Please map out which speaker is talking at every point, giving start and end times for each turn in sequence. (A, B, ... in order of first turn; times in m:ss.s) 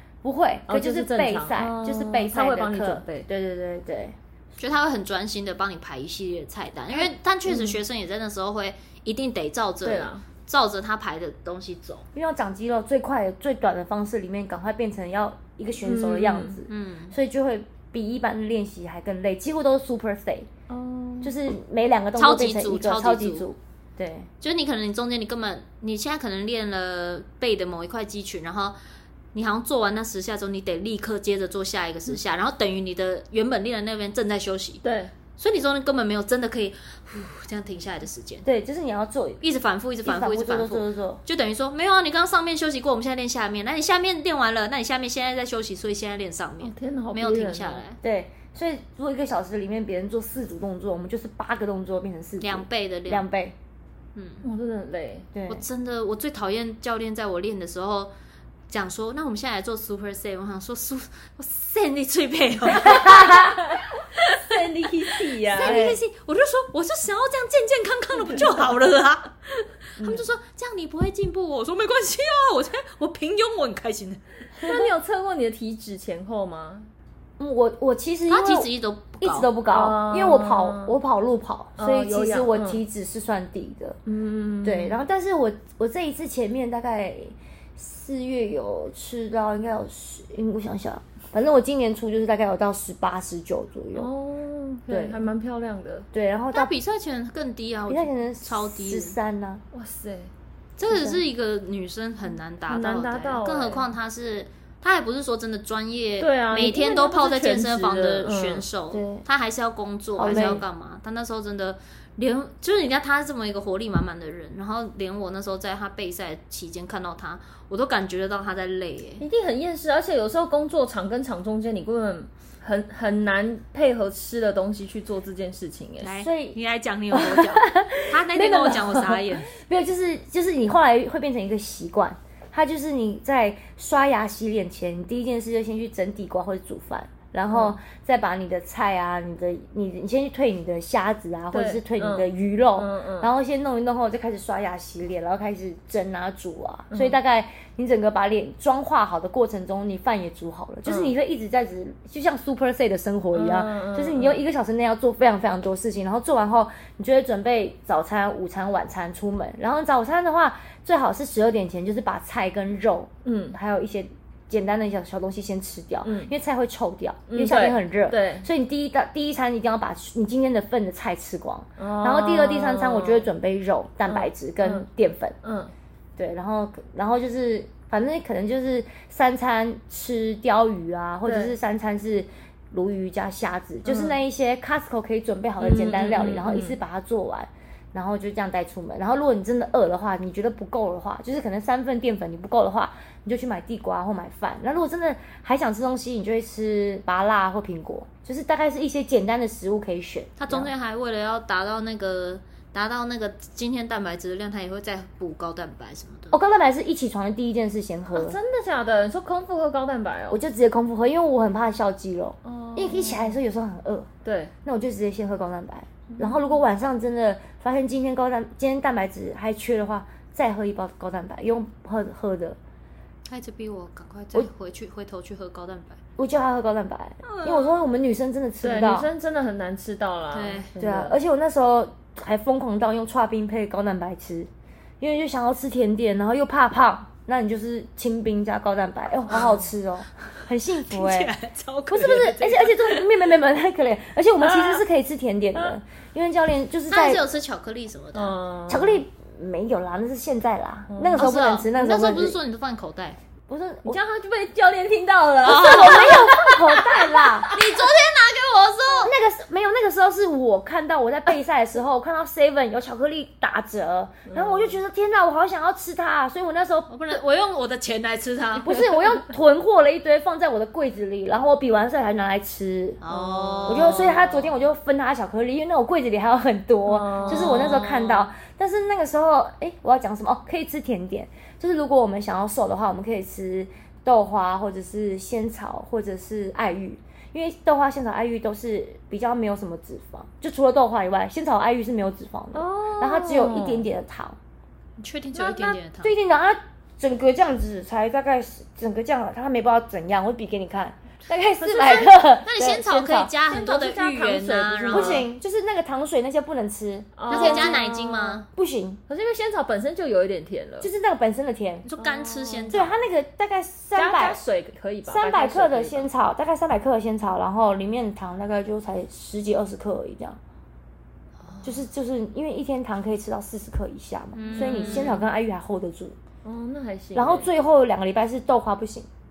0:00.2-0:04.2 A
0:00.7-0:03.3 B
0:04.6-0:12.0 C
0:09.8-0:10.2 B
0:12.1-0:20.5 A
0:15.8-0:16.6 B
0:16.7-0:17.1 C
0:20.7-0:21.4 B
0:21.2-0:24.3 A
0:22.2-0:23.5 C
0:24.4-0:28.8 C
0:29.3-0:34.8 C
0:34.8-0:35.1 B
0:35.4-0:38.4 C
0:38.4-0:39.4 A
0:39.4-0:48.0 C
0:40.0-0:41.2 A
0:46.6-0:47.8 B
0:48.0-0:53.6 A
0:52.4-0:53.3 C
0:54.2-0:54.4 C
0:54.4-0:55.3 B
0:55.3-0:55.6 A
0:55.5-0:58.1 C
0:58.7-1:04.6 C
1:02.8-1:03.6 A
1:03.5-1:05.8 B
1:05.2-1:14.2 C
1:05.6-1:06.0 A
1:10.0-1:10.3 A
1:14.6-1:14.9 A
1:14.6-1:16.9 B
1:17.4-1:24.0 A
1:18.3-1:19.5 C
1:19.7-1:21.0 B
1:21.8-1:22.8 B
1:24.1-1:25.0 B
1:24.6-1:34.1 A
1:33.9-1:36.1 B
1:34.9-1:35.2 A
1:36.1-1:36.7 A
1:36.5-1:39.2 C
1:37.9-1:39.6 A
1:39.7-1:40.3 B
1:40.8-1:59.2 C
1:40.9-1:41.2 A
1:42.7-1:43.9 B
1:46.2-1:48.6 B
1:48.9-1:49.2 A
1:50.2-1:50.6 A
1:50.3-1:50.6 B
1:59.2-2:06.2 B
2:06.0-2:09.5 C
2:06.2-2:06.6 A
2:07.1-2:55.4 A
2:17.5-2:17.8 B
2:21.5-2:23.3 B
2:26.9-2:27.2 B
2:30.9-2:31.1 B
2:33.3-2:34.4 B
2:43.2-2:43.6 B
2:46.0-2:46.3 B
2:47.3-2:48.5 B
2:51.8-2:53.3 B
2:54.1-2:54.9 B
2:55.4-2:55.7 B
2:56.2-3:20.7 A
3:01.2-3:01.6 B
3:03.8-3:04.2 B
3:05.6-3:06.8 B
3:20.4-3:26.4 C
3:26.3-3:28.4 A
3:28.2-3:30.4 B
3:30.3-3:34.1 A
3:32.4-3:33.4 B
3:34.2-3:34.5 B
3:34.6-3:42.6 A
3:36.1-3:36.5 B
3:43.3-3:46.0 C
3:46.2-3:49.1 A
3:47.2-3:47.8 C
3:48.6-3:51.2 B
3:50.3-3:50.7 C
3:50.8-3:54.5 A
3:55.0-4:01.3 A
3:59.3-3:59.6 B
4:00.8-4:03.1 C
4:01.9-4:07.2 A
4:04.4-4:04.8 B
4:06.9-4:08.4 C
4:08.1-4:09.0 B
4:08.7-4:12.4 A
4:10.9-4:11.3 B
4:11.2-4:13.2 C
4:13.5-4:14.0 A
4:13.8-4:17.6 B
4:15.4-4:17.6 A
4:15.4-4:16.3 C
4:17.5-4:19.1 C
4:19.0-4:27.2 A
4:24.3-4:24.8 B
4:26.9-4:28.8 C
4:28.6-4:33.0 A
4:33.0-4:34.1 C
4:33.1-4:34.5 B
4:33.7-4:54.4 A
4:36.9-4:37.9 B
4:37.2-4:38.3 C
4:52.5-4:53.9 B
4:55.0-4:56.1 C
4:55.3-5:03.3 A
5:01.6-5:05.3 C
5:03.5-5:05.3 B
5:04.9-5:07.8 A
5:07.2-5:08.4 B
5:07.3-5:08.5 C
5:08.5-5:09.0 A
5:09.1-5:10.9 B
5:10.8-5:11.9 A
5:11.9-5:13.0 C
5:12.0-5:12.8 B
5:12.7-5:14.4 A
5:14.0-5:16.1 B
5:15.1-5:20.4 A
5:21.6-5:26.2 A
5:24.4-5:25.2 C
5:24.5-5:25.3 B
5:26.4-5:27.5 B
5:27.2-5:29.1 A